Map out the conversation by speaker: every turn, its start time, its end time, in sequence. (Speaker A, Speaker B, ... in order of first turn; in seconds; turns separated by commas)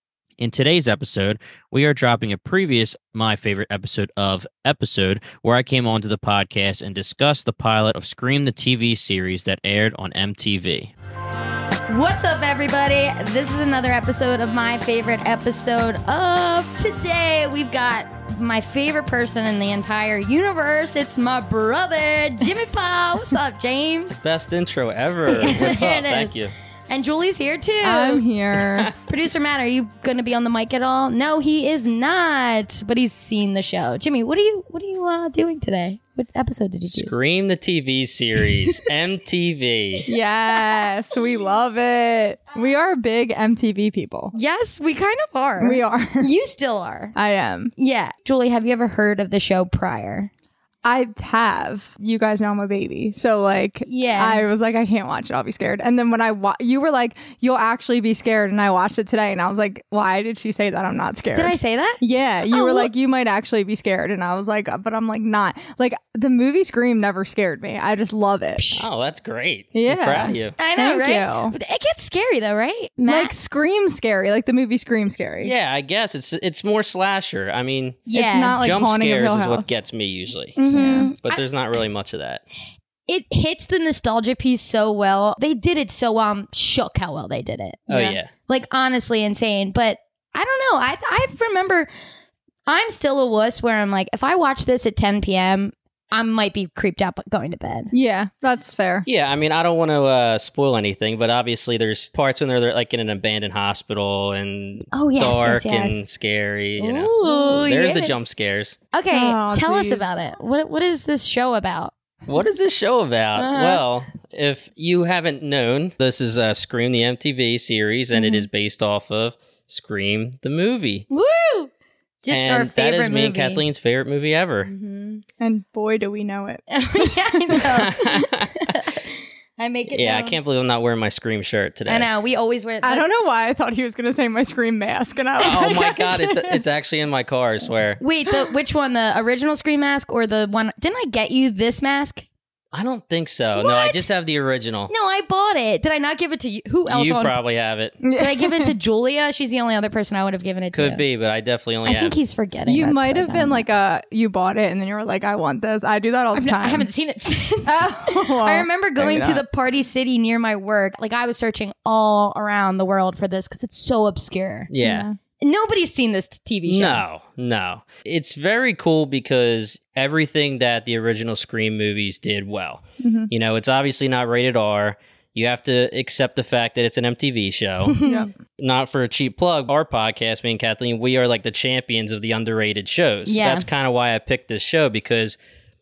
Speaker A: 0.4-10.9, Speaker B: 11.9-24.2, Speaker A: 24.1-26.5, Speaker B: 25.3-26.3, Speaker B: 26.9-28.2, Speaker C: 27.8-28.9, Speaker B: 29.0-37.1, Speaker A: 36.9-40.0, Speaker C: 40.1-44.3, Speaker B: 40.5-40.8, Speaker B: 44.3-47.1, Speaker C: 45.6-46.3, Speaker C: 47.1-47.7, Speaker B: 47.8-50.3, Speaker C: 50.8-68.6, Speaker B: 53.9-54.4, Speaker B: 61.3-62.9, Speaker B: 68.6-68.8, Speaker A: 68.8-70.5, Speaker C: 69.7-71.5, Speaker B: 70.6-73.3, Speaker C: 73.1-75.5, Speaker A: 75.4-80.6, Speaker B: 78.1-78.6, Speaker C: 78.1-79.7, Speaker B: 80.5-81.4, Speaker C: 80.7-81.1, Speaker A: 81.2-82.4, Speaker B: 83.1-91.9, Speaker A: 87.9-88.3, Speaker B: 92.7-97.9, Speaker C: 97.9-99.1, Speaker A: 99.0-108.8, Speaker B: 104.9-106.0, Speaker B: 106.8-108.2, Speaker B: 108.9-111.9, Speaker C: 109.1-110.2, Speaker A: 112.3-121.1, Speaker B: 113.3-113.8, Speaker B: 118.2-118.4, Speaker B: 121.1-121.7, Speaker B: 122.2-123.6, Speaker A: 122.3-124.7, Speaker B: 124.7-125.2, Speaker C: 125.4-126.6, Speaker B: 126.7-130.4, Speaker A: 127.6-128.8, Speaker A: 129.9-132.1, Speaker B: 131.9-133.1, Speaker C: 132.8-136.6, Speaker A: 135.4-138.0, Speaker B: 138.0-142.2, Speaker A: 142.7-144.9, Speaker B: 143.6-144.1, Speaker B: 144.9-147.3, Speaker A: 146.9-148.0, Speaker C: 148.0-148.7, Speaker B: 148.1-151.0, Speaker A: 150.7-152.2, Speaker B: 151.8-153.7, Speaker C: 152.6-156.9, Speaker B: 156.3-164.7, Speaker C: 157.7-159.4, Speaker A: 164.7-165.1, Speaker C: 164.8-165.2, Speaker B: 165.4-167.0, Speaker A: 166.7-178.0, Speaker C: 173.0-173.3, Speaker B: 177.9-178.3, Speaker A: 178.6-185.4, Speaker B: 183.2-183.7